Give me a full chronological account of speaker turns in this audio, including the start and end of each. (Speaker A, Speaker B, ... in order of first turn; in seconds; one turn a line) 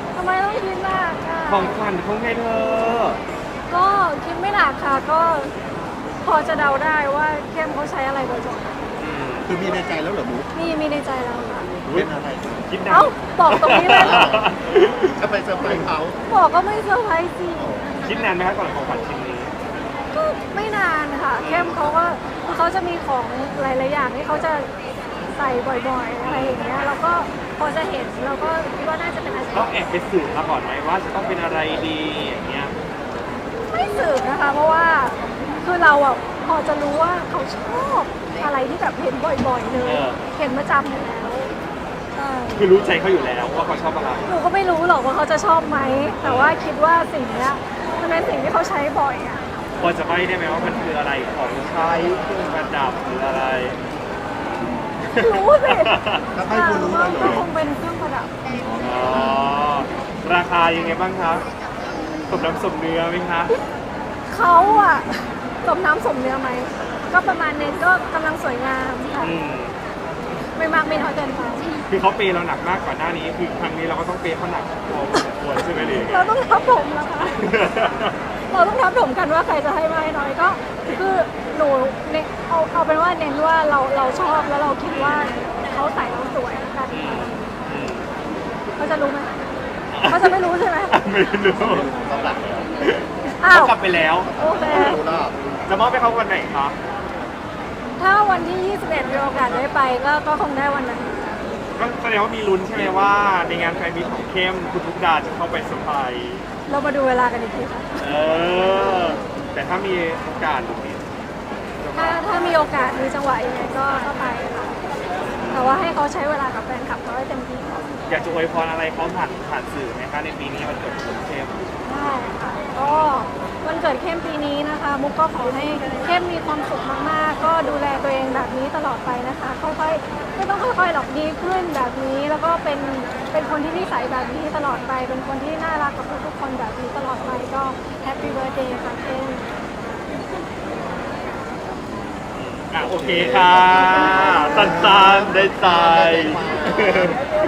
Speaker A: 0.1-1.8
Speaker B: 1.5-3.2
Speaker A: 3.7-5.5
Speaker A: 6.2-8.8
Speaker B: 9.0-9.5
Speaker C: 9.5-10.5
Speaker A: 10.5-11.7
Speaker B: 11.8-12.1
Speaker C: 11.9-12.7
Speaker B: 12.7-15.1
Speaker A: 12.9-14.4
Speaker C: 14.0-14.5
Speaker C: 15.1-16.2
Speaker A: 16.3-17.7
Speaker C: 17.6-17.9
Speaker B: 18.0-19.5
Speaker A: 20.1-24.7
Speaker B: 21.4-21.8
Speaker A: 25.3-29.7
Speaker B: 26.2-26.8
Speaker B: 29.5-32.8
Speaker A: 33.7-41.5
Speaker B: 39.8-40.2
Speaker A: 42.1-42.7
Speaker B: 42.6-44.4
Speaker A: 44.3-49.4
Speaker B: 46.2-46.6
Speaker B: 49.8-53.8
Speaker B: 55.1-56.2
Speaker A: 55.1-58.3
Speaker C: 56.3-57.5
Speaker C: 58.5-58.9
Speaker B: 58.8-61.5
Speaker A: 59.1-59.5
Speaker B: 62.3-63.5
Speaker A: 64.3-69.3
Speaker B: 69.2-69.8
Speaker A: 70.6-71.7
Speaker B: 71.9-76.3
Speaker A: 75.8-77.6
Speaker B: 77.4-78.2
Speaker A: 78.5-87.5
Speaker B: 84.9-85.3
Speaker B: 86.9-88.1
Speaker A: 88.8-89.3
Speaker B: 89.9-91.9
Speaker A: 90.0-91.0
Speaker C: 91.6-92.7
Speaker B: 92.8-94.8
Speaker A: 93.4-93.8
Speaker C: 94.2-95.4
Speaker A: 94.3-95.0
Speaker B: 95.7-96.8
Speaker A: 98.0-101.2
Speaker B: 101.8-106.5
Speaker A: 106.7-107.9
Speaker B: 108.0-111.0
Speaker B: 111.8-113.0
Speaker A: 111.9-114.8
Speaker B: 115.2-116.0
Speaker A: 115.5-117.9
Speaker B: 118.1-121.6
Speaker A: 121.8-139.6
Speaker B: 122.8-123.1
Speaker B: 142.3-147.2
Speaker C: 142.8-147.2